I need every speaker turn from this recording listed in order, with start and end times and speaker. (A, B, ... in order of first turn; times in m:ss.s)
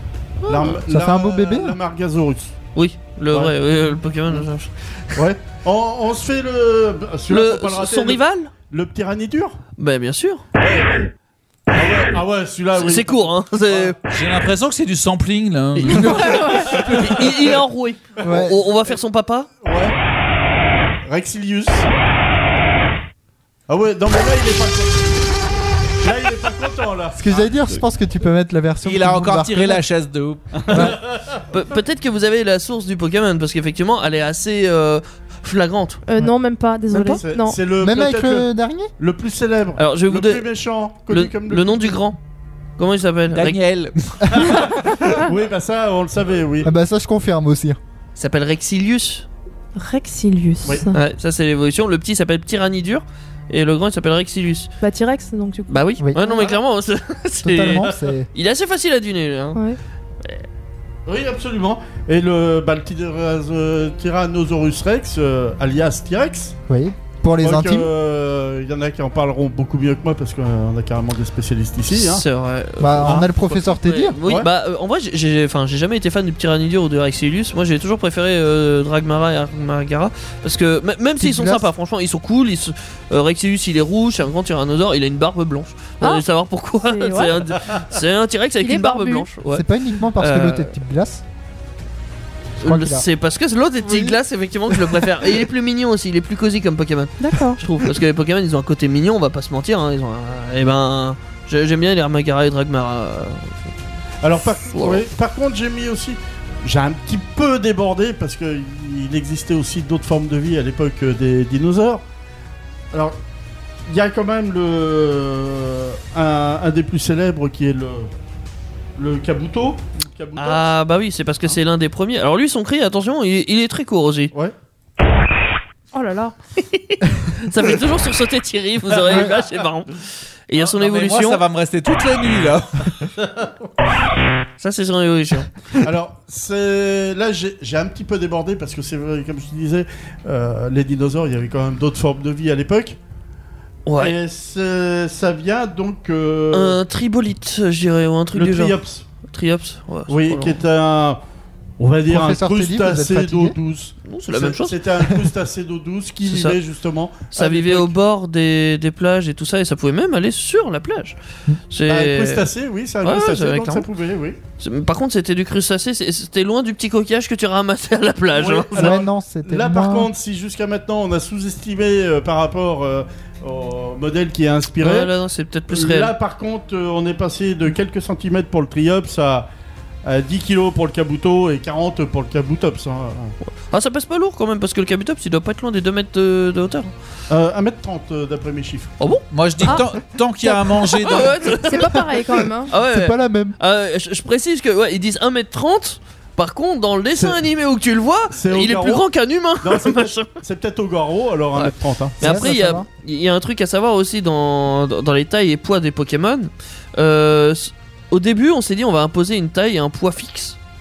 0:00.4-0:00.8 A
0:00.5-0:02.5 B
0:00.8-0:01.8 C
0:02.7-0:05.2 A
0:03.3-0:03.6 B
0:05.1-0:09.6 B
0:07.3-0:08.5 A
0:09.8-0:10.4 A
0:10.6-0:11.1 B
0:11.7-0:13.9 B
0:12.7-0:14.0 A
0:14.1-0:17.0 D
0:15.8-0:19.5 A
0:16.2-0:16.7 E
0:16.8-0:17.4 B
0:18.2-0:18.6 C
0:18.2-0:19.0 B
0:19.6-0:20.0 B
0:21.0-0:21.9 B
0:23.7-0:25.2 B
0:26.0-0:27.5 B
0:27.1-0:29.8 C
0:28.8-0:30.9 D
0:30.6-0:31.4 B
0:30.7-0:31.0 C
0:31.5-0:36.0 A
0:36.0-0:37.6 E
0:36.9-0:42.0 B
0:37.8-0:38.9 C
0:39.8-0:40.5 A
0:41.1-0:42.2 A
0:42.8-0:43.6 A
0:43.3-0:44.8 D
0:44.3-0:44.6 B
0:45.2-0:46.7 B
0:46.6-0:47.8 C
0:48.2-0:49.2 A
0:49.8-0:51.0 E
0:50.9-0:54.7 A
0:54.8-0:56.4 E
0:55.7-0:59.6 A
0:57.4-0:58.3 C
1:01.0-1:06.6 B
1:06.7-1:07.9 C
1:07.4-1:12.2 B
1:11.9-1:29.6 A
1:12.8-1:14.2 C
1:13.0-1:13.6 B
1:21.2-1:21.7 C
1:26.0-1:26.2 E
1:26.8-1:27.3 E
1:28.6-1:29.3 E
1:29.5-1:31.2 C
1:30.2-1:30.8 A
1:32.6-1:33.0 C
1:32.6-1:43.5 A
1:37.2-1:37.6 E
1:44.2-1:52.0 B
1:44.6-1:45.0 A
1:52.9-1:53.2 B
1:53.9-1:58.1 B
1:59.0-2:00.6 B
2:00.4-2:04.3 A
2:05.9-2:06.3 E
2:06.6-2:11.4 A
2:08.9-2:09.6 B
2:10.8-2:13.1 D
2:14.6-2:15.5 A
2:15.8-2:23.0 B
2:23.8-2:24.2 A
2:24.0-2:26.8 B
2:26.5-2:28.8 A
2:28.3-2:29.0 B
2:29.3-2:30.6 A
2:30.1-2:31.2 B
2:31.8-2:37.9 B
2:32.1-2:33.6 C
2:34.0-2:34.8 A
2:36.2-2:36.6 A
2:37.3-2:41.2 A
2:41.7-2:42.5 A
2:41.9-2:44.4 B
2:43.0-2:43.9 A
2:44.6-2:49.0 A
2:48.3-2:55.1 B
2:48.7-2:50.1 C
2:54.8-2:56.1 A
2:55.7-2:59.5 B
3:00.0-3:03.3 B
3:03.4-3:06.9 A
3:07.3-3:08.9 B
3:09.3-3:11.6 D
3:11.0-3:11.9 A
3:11.5-3:12.7 E
3:12.7-3:20.3 A
3:12.7-3:13.6 C
3:17.1-3:17.4 B
3:18.3-3:19.1 B
3:19.6-3:22.4 B
3:21.5-3:30.6 A
3:22.2-3:22.9 C